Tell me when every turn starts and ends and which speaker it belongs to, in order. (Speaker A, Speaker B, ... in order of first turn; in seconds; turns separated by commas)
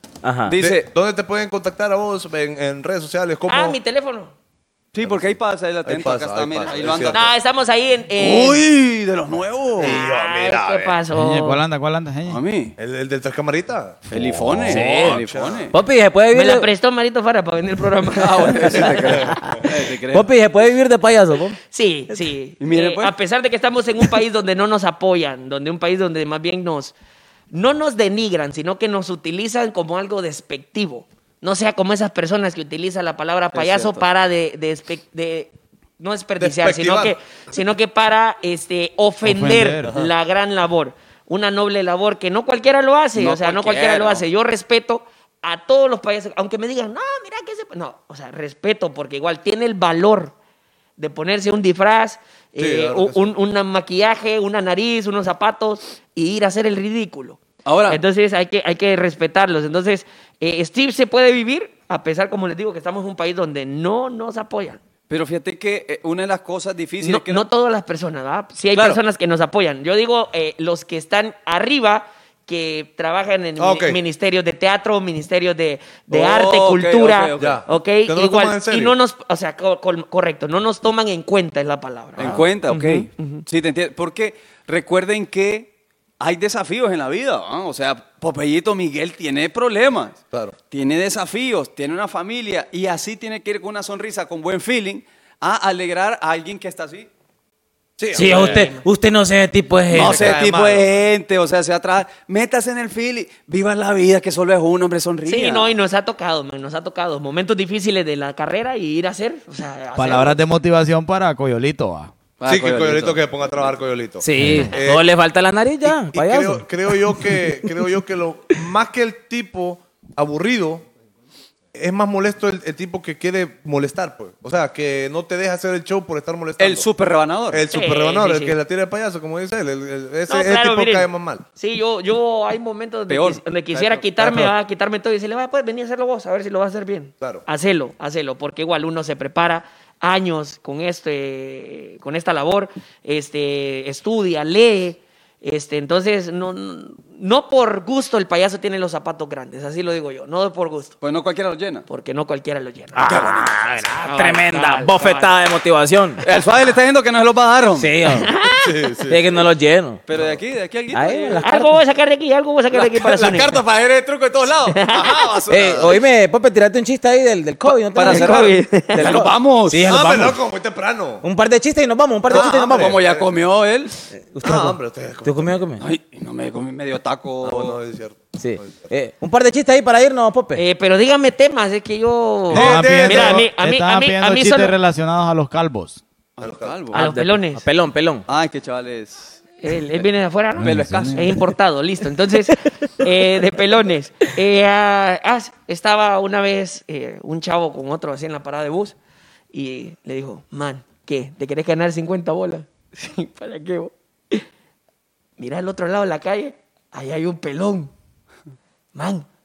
Speaker A: 0.2-0.5, Speaker B: 0.5-0.9, Speaker C: 0.6-3.8, Speaker D: 3.5-4.3, Speaker B: 4.9-7.3, Speaker C: 5.0-7.3, Speaker D: 7.1-8.6, Speaker B: 8.2-10.0, Speaker C: 9.8-11.0, Speaker D: 9.8-11.6, Speaker E: 11.1-12.4, Speaker B: 12.3-12.7, Speaker C: 12.8-15.7, Speaker B: 14.1-15.7, Speaker A: 14.6-15.2, Speaker A: 15.7-16.7, Speaker D: 16.3-19.2, Speaker B: 18.2-20.3, Speaker A: 20.1-21.6, Speaker D: 21.7-26.9, Speaker B: 22.6-23.1, Speaker D: 27.5-50.3, Speaker B: 33.5-34.0, Speaker C: 36.4-37.1, Speaker E: 39.2-39.9, Speaker C: 39.8-40.1, Speaker B: 43.1-44.2, Speaker D: 51.0-64.8, Speaker C: 52.6-53.3, Speaker B: 57.6-58.0, Speaker B: 65.1-67.4, Speaker D: 67.0-83.4, Speaker B: 68.7-69.0, Speaker C: 73.6-74.0, Speaker B: 76.1-77.6, Speaker C: 77.4-78.9, Speaker B: 82.2-90.2, Speaker C: 82.2-82.5, Speaker B: 90.7-97.1, Speaker C: 98.0-98.6, Speaker D: 98.1-98.8, Speaker A: 98.1-100.4, Speaker B: 99.9-105.7, Speaker C: 99.9-100.9, Speaker D: 105.2-110.4, Speaker E: 110.0-112.1, Speaker B: 112.4-113.2, Speaker C: 112.5-115.0, Speaker A: 114.2-117.4, Speaker E: 114.4-114.7, Speaker C: 115.8-120.8, Speaker C: 121.7-126.9, Speaker B: 126.6-127.6, Speaker C: 127.5-131.4, Speaker D: 127.7-128.6, Speaker D: 130.3-150.9, Speaker B: 133.1-134.0, Speaker C: 134.2-134.5, Speaker B: 151.0-151.8, Speaker D: 151.9-155.3, Speaker A: 152.9-156.2, Speaker B: 153.0-153.6, Speaker B: 156.2-157.9, Speaker A: 157.8-158.3, Speaker D: 158.1-158.7, Speaker C: 158.6-159.4, Speaker A: 159.1-160.0, Speaker B: 160.1-161.4, Speaker C: 160.1-160.4, Speaker A: 160.9-161.8, Speaker D: 161.4-163.6, Speaker B: 162.7-166.0, Speaker D: 164.7-165.3, Speaker A: 165.5-170.4, Speaker B: 167.7-170.0, Speaker D: 168.0-169.2, Speaker C: 169.8-171.2, Speaker A: 171.2-173.0, Speaker C: 172.3-173.3, Speaker B: 172.3-173.9, Speaker A: 174.3-175.8, Speaker C: 174.4-175.6, Speaker B: 175.8-177.8, Speaker C: 177.4-178.9, Speaker A: 178.4-180.6, Speaker D: 180.5-184.7, Speaker E: 182.5-186.0, Speaker C: 182.5-183.4, Speaker B: 182.5-183.4, Speaker B: 186.4-187.0, Speaker C: 186.4-186.8, Speaker D: 186.9-187.6, Speaker A: 186.9-188.2, Speaker B: 188.3-189.4, Speaker D: 189.6-198.9, Speaker E: 190.6-191.3, Speaker B: 190.6-191.3, Speaker D: 199.5-204.4, Speaker D: 205.4-207.9, Speaker D: 208.9-209.2